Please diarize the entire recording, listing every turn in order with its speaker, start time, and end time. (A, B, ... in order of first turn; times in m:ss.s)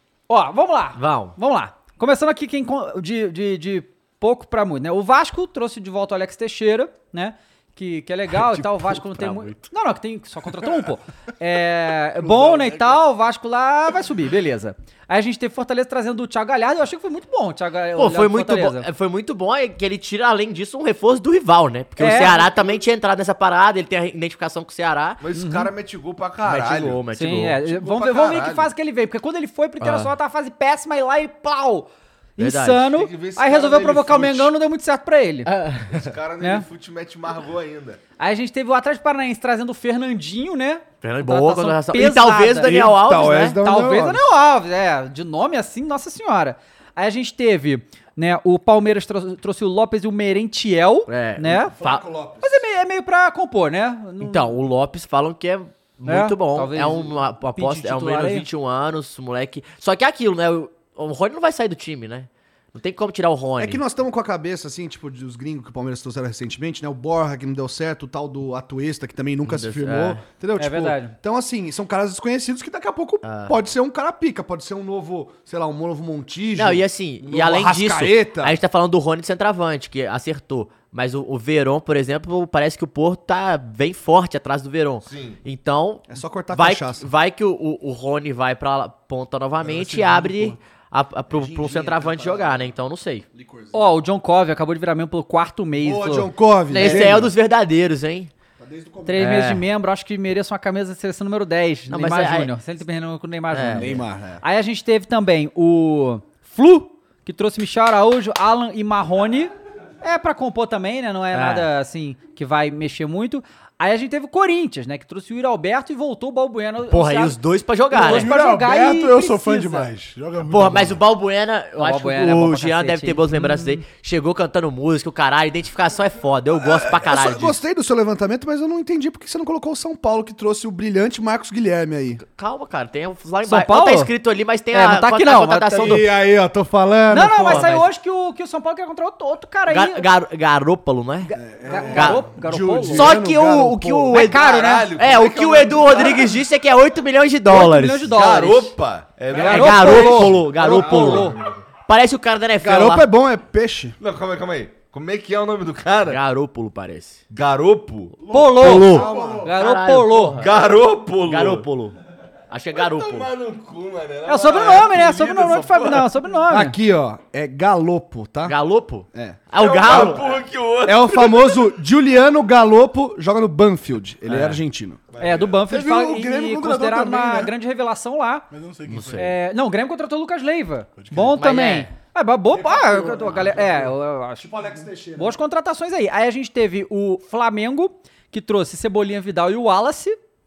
0:00.3-0:18.8 A
0:01.0-0:01.3 B
0:12.2-0:13.0 C
0:18.0-0:25.2 B
0:22.0-0:22.6 A
0:25.2-0:27.0 D
0:25.3-0:25.7 A
0:26.4-0:27.6 B
0:27.1-0:35.5 A
0:27.6-0:28.7 D
0:29.8-0:30.1 B
0:32.4-0:32.8 B
0:32.9-0:34.5 D
0:35.4-0:36.1 B
0:35.9-0:38.0 D
0:36.4-0:36.6 A
0:38.2-0:42.8 A
0:41.0-0:43.6 B
0:42.6-0:44.2 E
0:43.6-0:51.7 A
0:51.1-0:52.0 B
0:51.8-0:52.6 E
0:52.4-0:54.5 A
0:54.2-1:03.8 B
0:56.0-0:58.4 A
1:03.6-1:18.6 E
1:09.4-1:10.2 B
1:10.6-1:11.1 A
1:13.2-1:13.6 B
1:16.6-1:33.2 B
1:25.0-1:25.4 D
1:26.1-1:27.1 E
1:29.6-1:30.6 E
1:31.3-1:32.7 E
1:33.3-1:33.9 E
1:33.7-1:37.1 A
1:35.8-1:37.3 E
1:36.7-1:38.3 B
1:38.6-1:39.5 E
1:39.0-1:57.4 A
1:39.2-1:39.6 B
1:41.9-1:42.5 B
1:43.5-1:44.0 B
1:43.8-1:44.4 E
1:51.3-1:51.7 B
1:56.9-1:58.3 B
1:57.9-1:59.9 A
1:57.9-2:01.0 C
2:00.4-2:07.6 B
2:01.8-2:03.8 A
2:06.6-2:12.2 E
2:12.2-2:16.1 B
2:13.4-2:14.1 A
2:14.7-2:16.0 A
2:15.8-2:17.7 E
2:17.1-2:20.0 A
2:17.4-2:17.9 B
2:19.7-2:21.4 B
2:21.3-2:24.2 E
2:21.6-2:23.2 A
2:21.9-2:22.2 B
2:22.9-2:24.4 B
2:24.1-2:24.9 A
2:24.2-2:26.3 D
2:25.0-2:28.1 B
2:27.5-2:28.7 A
2:28.0-2:31.4 D
2:29.3-2:31.4 A
2:29.4-2:31.3 B
2:30.6-2:31.3 E
2:31.9-2:33.1 B
2:32.6-2:34.0 E
2:34.0-2:36.2 D
2:36.1-2:37.2 B
2:37.3-2:38.4 D
2:38.2-2:39.6 C
2:38.3-2:40.4 A
2:38.6-2:40.7 B
2:38.9-2:39.5 E
2:40.4-2:41.7 D
2:41.2-2:42.0 B
2:42.5-2:43.3 B
2:42.7-2:46.2 D
2:44.2-2:46.8 A
2:46.5-2:48.6 E
2:48.4-2:50.4 B
2:49.1-2:50.2 E
2:49.6-2:51.6 D
2:50.8-2:55.0 E
2:54.3-2:54.6 B
2:55.1-2:55.6 D
2:55.2-2:58.5 A
2:55.7-2:57.5 C
2:58.5-2:59.3 C
2:58.8-2:59.3 B
2:59.2-3:04.5 A
3:01.0-3:01.4 C
3:01.3-3:01.9 B
3:02.5-3:05.4 E
3:05.1-3:10.2 A